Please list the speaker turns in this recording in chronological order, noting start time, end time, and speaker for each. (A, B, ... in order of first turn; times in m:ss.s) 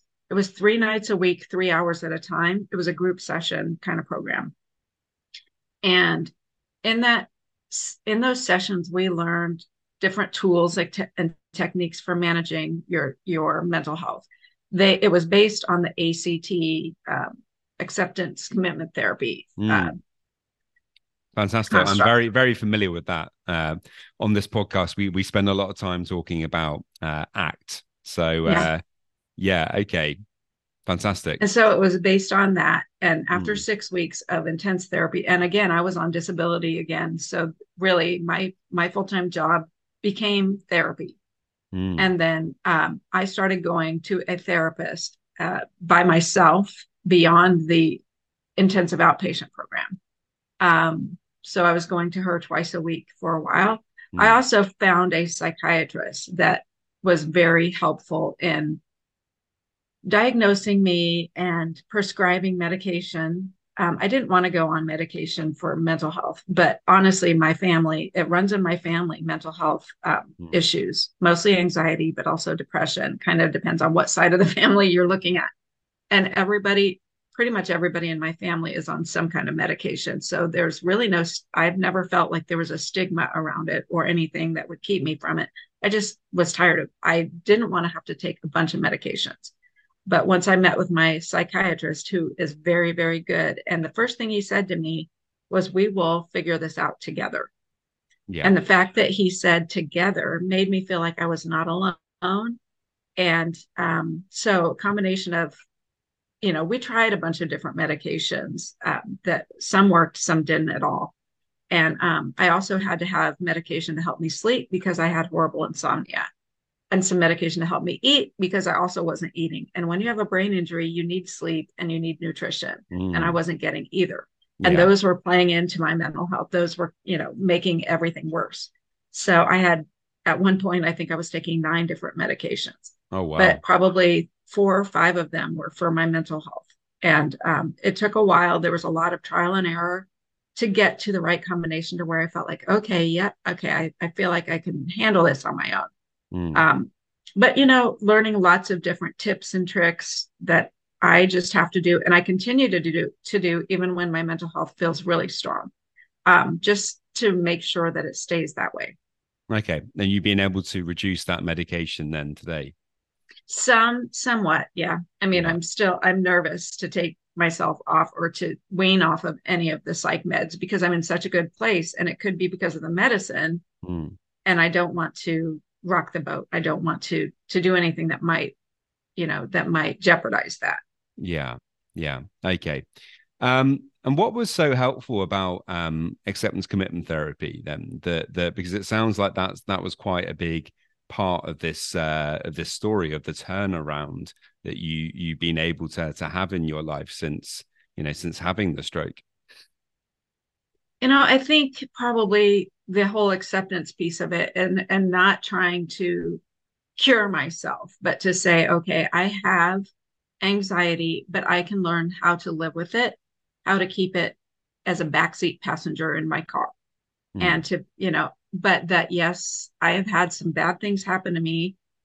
0:00.3-0:04.5 A
0:05.8-0:06.3 A
0:06.8-0:20.0 A
0:19.6-0:20.0 B
0:21.4-0:28.8 B
0:21.7-0:22.1 A
0:29.4-0:30.2 B
0:30.9-0:31.4 B
0:31.4-0:41.2 A
0:33.3-0:33.6 B
0:41.7-0:42.1 B
0:42.0-0:48.0 A
0:48.6-0:50.0 A
0:50.6-0:58.8 A
0:54.1-0:54.4 B
1:00.1-1:15.5 A
1:16.1-1:29.5 A
1:30.1-1:37.5 A
1:38.3-1:38.6 B
1:38.4-1:42.6 A
1:43.2-1:45.6 A
1:46.4-1:51.1 A
1:51.7-1:56.3 A
1:56.9-2:25.9 A
2:02.9-2:03.4 B
2:04.6-2:04.9 B
2:13.1-2:13.6 B
2:26.3-2:26.7 B
2:26.5-2:35.7 A
2:36.2-2:39.0 A
2:39.5-2:42.7 B
2:43.5-2:53.6 A
2:53.8-2:54.2 B
2:54.4-2:58.6 A
2:59.2-3:00.8 A
3:01.2-3:02.8 B
3:03.4-3:19.2 B
3:21.0-3:26.4 A
3:27.0-3:29.9 A
3:30.4-3:36.7 A
3:37.4-3:37.6 B
3:37.4-3:41.8 A